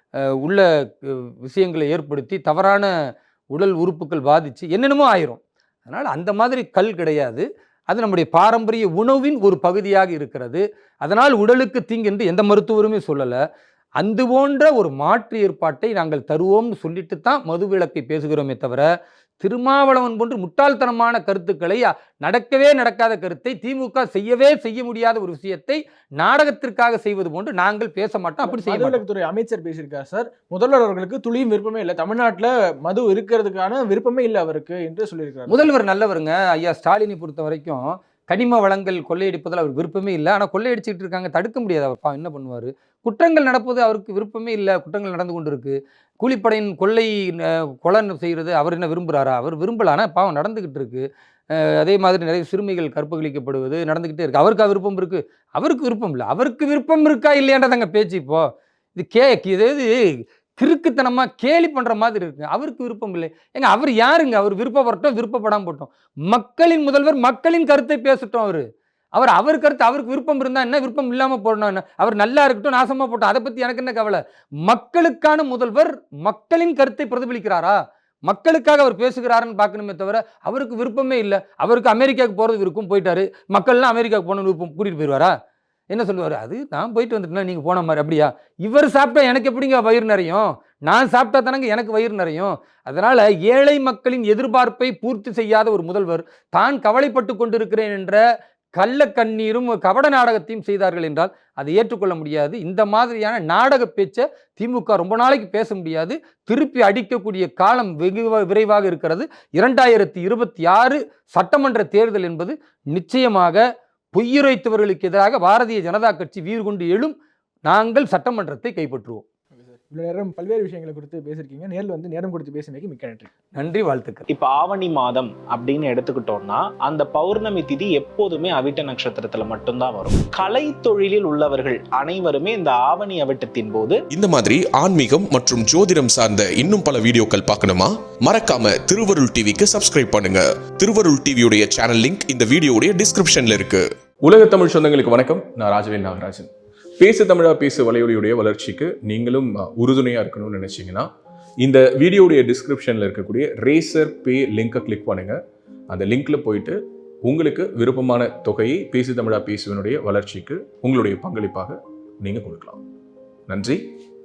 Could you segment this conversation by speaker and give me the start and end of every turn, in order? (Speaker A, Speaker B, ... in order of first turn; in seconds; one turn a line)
Speaker A: 0.4-2.9
Speaker A: 3.5-13.4
Speaker A: 14.0-18.9
Speaker A: 19.4-29.0
Speaker B: 28.4-35.7
Speaker A: 35.5-85.3
Speaker A: 85.9-98.2
Speaker A: 98.8-113.6
Speaker A: 114.1-117.1
Speaker A: 117.7-119.2
Speaker B: 119.5-123.3
Speaker A: 123.5-124.3
Speaker C: 124.3-134.0
Speaker D: 134.1-143.8
Speaker E: 144.2-146.5
Speaker E: 147.0-151.1
Speaker E: 151.6-155.4
Speaker E: 155.9-162.8
Speaker E: 163.5-163.8